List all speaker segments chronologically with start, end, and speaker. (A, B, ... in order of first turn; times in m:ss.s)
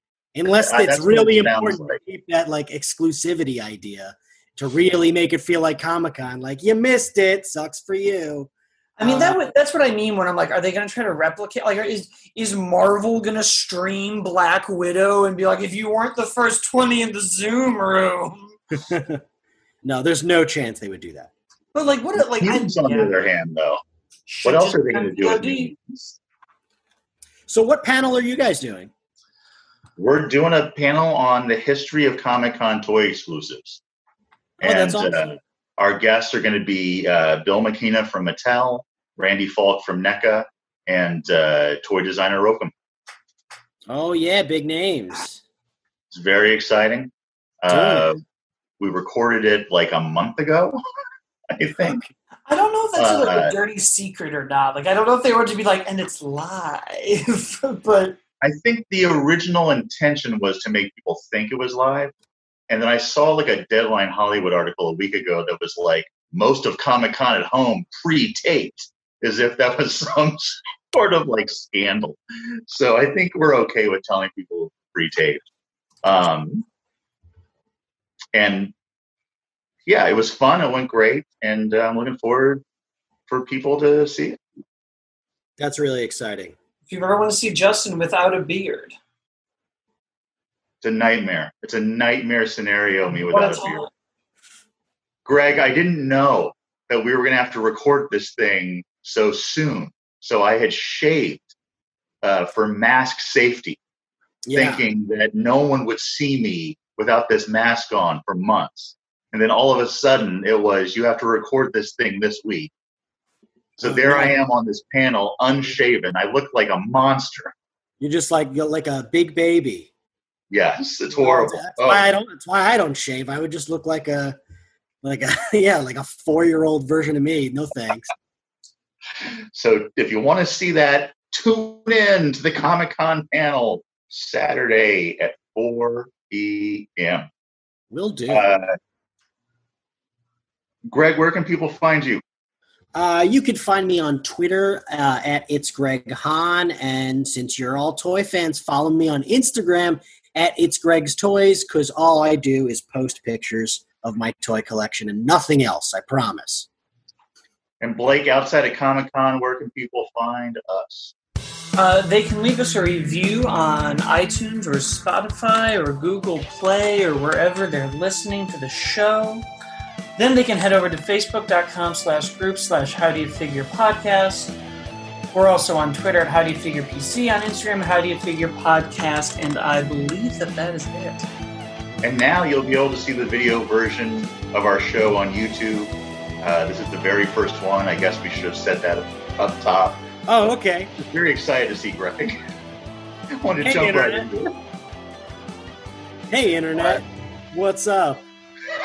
0:00.3-0:08.5 A
0:00.5-0:02.0 B
0:09.0-0:18.5 C
0:09.0-0:09.4 A
0:18.7-0:19.2 A
0:19.8-0:21.3 A
0:21.7-0:23.1 C
0:22.4-0:23.8 B
0:24.3-0:25.7 C
0:24.4-0:26.2 B
0:27.5-0:28.9 A
0:30.0-0:33.8 B
0:34.6-0:42.7 B
0:34.6-0:35.3 A
0:43.9-0:45.4 A
0:46.1-0:47.1 B
0:47.6-0:48.2 B
0:47.7-0:48.1 A
0:48.8-0:50.8 B
0:51.5-0:52.0 B
0:52.5-0:58.2 C
0:53.0-0:53.5 B
0:58.4-1:02.1 B
1:02.7-1:15.5 B
1:16.0-1:16.6 B
1:18.3-1:18.7 B
1:19.8-1:22.6 B
1:23.3-1:24.4 B
1:25.6-1:26.5 A
1:26.9-1:29.0 C
1:30.8-1:33.9 B
1:33.2-1:33.9 C
1:35.2-1:41.5 B
1:42.2-1:43.8 B
1:44.4-1:44.8 A
1:44.5-1:52.7 B
1:53.8-1:57.5 B
1:53.8-1:54.4 A
1:58.0-1:59.9 A
2:00.5-2:02.0 B
2:01.1-2:04.4 A
2:05.0-2:08.1 A
2:09.5-2:17.3 B
2:17.9-2:18.5 A
2:18.3-2:18.7 B
2:20.9-2:22.2 B
2:22.9-2:36.7 A
2:37.8-2:41.1 B
2:41.8-2:49.4 C
2:50.2-2:54.5 C
2:55.3-3:01.3 C
3:02.0-3:12.4 B
3:10.3-3:10.9 A
3:13.4-3:14.5 B
3:13.6-3:14.3 C
3:16.3-3:18.2 A